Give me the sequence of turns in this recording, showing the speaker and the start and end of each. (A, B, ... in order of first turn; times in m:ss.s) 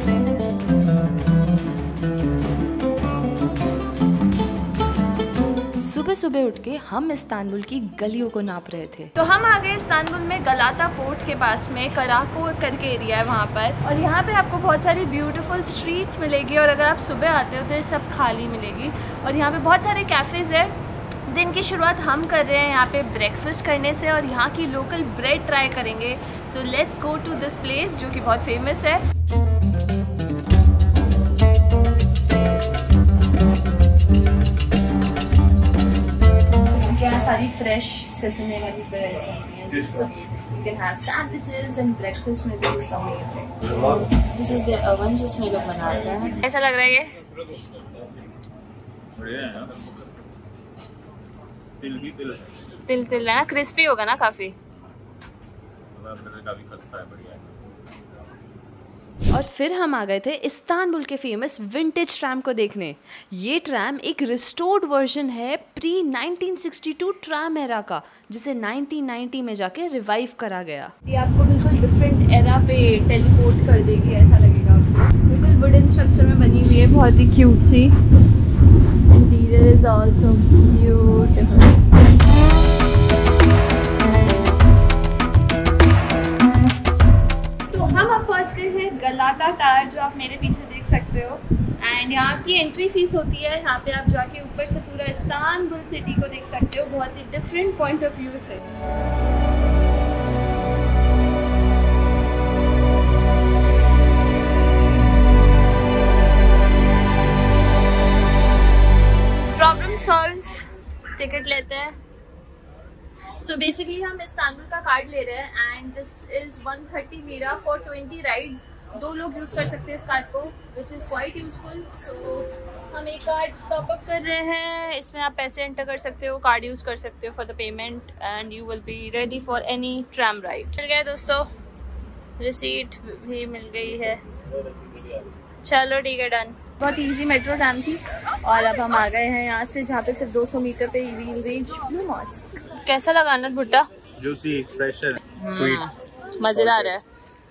0:05.7-0:09.1 A
0:09.1-0:20.8 B
0:21.3-0:29.0 B
0:36.8-0:47.1 B
0:49.2-0:50.1 C
0:51.8-0:52.6 C
0:52.9-0:54.5 B
0:56.0-0:57.5 C
0:59.3-1:10.9 A
1:11.0-1:17.9 B
1:19.1-1:21.8 B
1:27.7-1:38.6 B
1:49.6-1:50.5 B
1:51.2-1:51.9 B
1:53.4-2:11.5 B
2:12.4-2:14.2 B
2:15.6-2:23.9 B
2:24.2-2:25.8 C
2:25.3-2:27.0 B
2:26.5-2:27.0 C